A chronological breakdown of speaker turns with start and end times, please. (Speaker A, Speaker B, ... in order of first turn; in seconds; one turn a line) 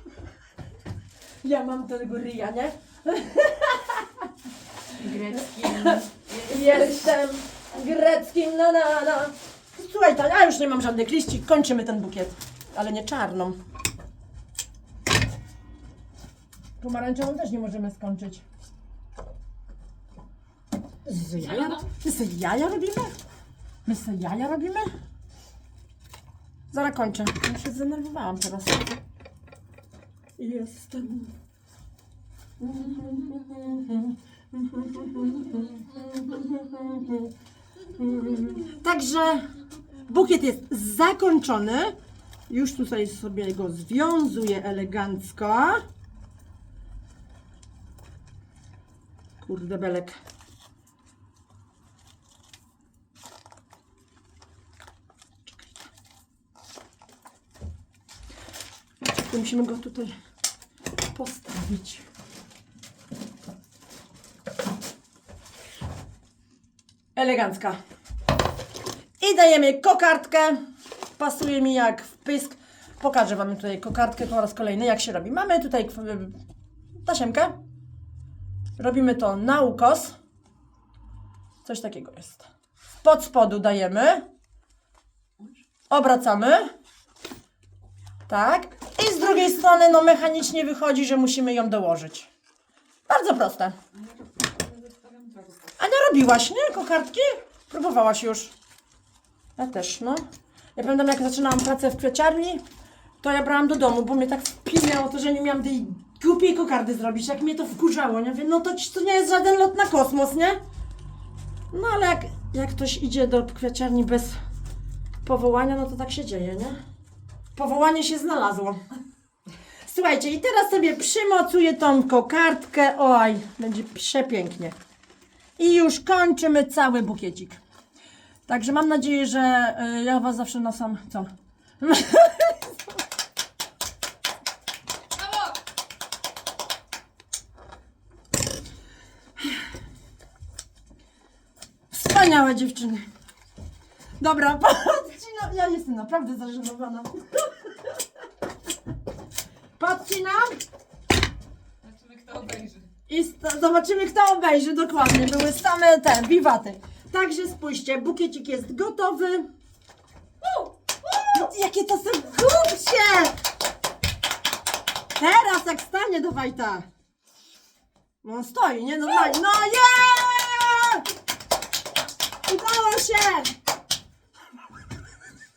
Speaker A: 1.4-4.3
Speaker B: 4.9-7.1
Speaker A: 5.4-13.6
Speaker A: 16.8-18.4
Speaker B: 21.1-21.9
Speaker A: 21.2-23.1
Speaker A: 23.9-24.9
Speaker A: 26.7-29.0
Speaker A: 30.4-31.3
Speaker A: 32.6-37.3
Speaker A: 37.9-39.5
Speaker A: 40.0-41.9
Speaker A: 42.5-45.8
Speaker A: 49.4-50.2
Speaker A: 55.5-55.8
Speaker A: 59.2-60.1
Speaker A: 61.1-62.0
Speaker A: 67.2-67.8
Speaker A: 69.2-70.6
Speaker A: 71.2-76.4
Speaker A: 77.0-77.5
Speaker A: 78.8-80.1
Speaker A: 81.6-82.5
Speaker A: 83.0-84.2
Speaker A: 85.9-86.7
Speaker A: 88.3-92.3
Speaker A: 93.1-93.8
Speaker B: 94.4-95.7
Speaker A: 95.8-98.5
Speaker A: 99.6-100.2
Speaker A: 100.8-102.6
Speaker A: 103.2-110.6
Speaker A: 111.7-114.4
Speaker A: 115.2-116.8
Speaker A: 117.5-118.8
Speaker A: 119.8-124.7
Speaker A: 125.6-127.6
Speaker A: 128.5-132.7
Speaker A: 141.9-143.1
Speaker A: 144.2-147.5
Speaker A: 149.8-150.6
Speaker B: 151.8-152.9
Speaker A: 153.1-159.4
Speaker A: 161.2-163.3
Speaker A: 165.2-166.8
Speaker A: 168.2-171.1
Speaker A: 172.4-173.5